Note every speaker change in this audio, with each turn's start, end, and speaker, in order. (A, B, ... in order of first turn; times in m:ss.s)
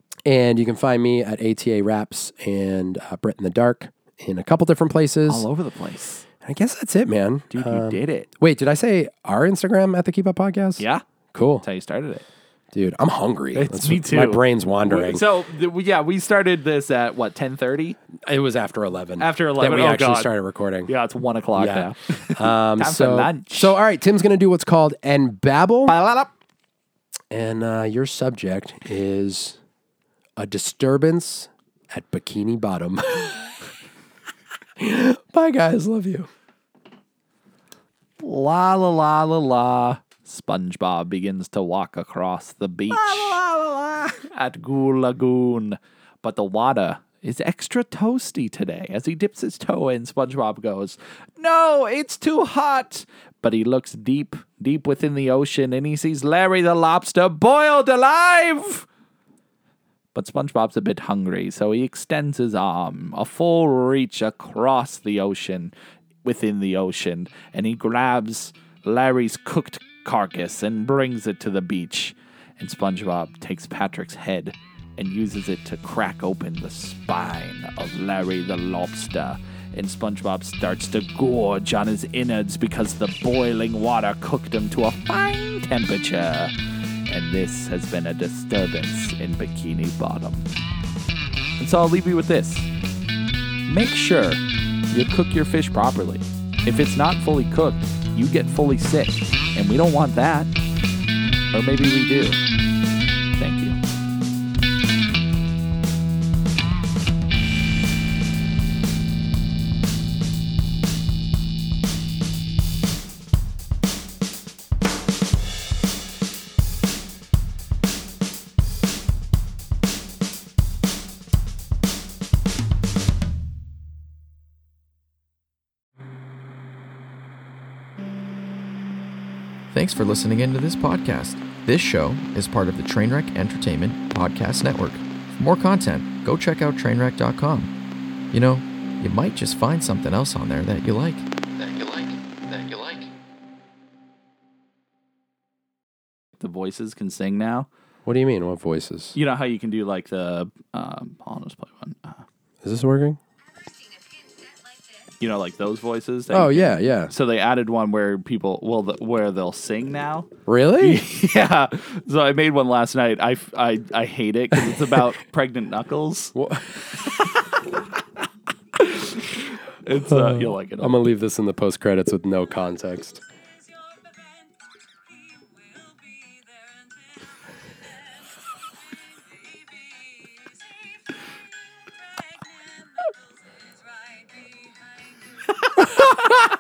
0:00.3-0:05.5 A
0:05.3-0:06.2 B
0:06.4-0:11.6 A
0:07.5-0:08.3 B
0:10.8-0:11.0 B
0:11.6-0:12.2 B
0:12.7-0:15.2 A
0:13.5-0:18.0 B
0:18.3-0:20.9 A
0:19.2-0:20.3 B
0:20.9-0:23.8 B
0:21.6-0:25.9 A
0:25.9-0:26.3 B
0:27.3-0:29.6 A
0:30.4-0:33.5 A
0:34.8-0:36.3 A
0:38.2-0:58.9 B
1:00.1-1:05.7 B
1:06.2-1:26.5 B
1:27.1-1:30.4 B
1:31.6-1:32.7 B
1:33.7-1:40.5 B
1:41.5-1:42.4 B
1:43.4-1:43.8 B
2:09.7-2:17.7 C
2:18.3-2:23.1 C
2:26.4-2:27.7 B
2:28.1-2:29.2 A
2:29.2-2:32.2 B
2:32.6-2:33.2 A
2:35.2-2:46.4 B
2:36.3-2:37.1 A
2:40.5-2:41.0 A
2:46.4-2:46.7 A
2:46.9-2:47.4 B
2:48.8-2:51.1 B
2:50.0-2:53.2 A
3:05.6-3:06.4 B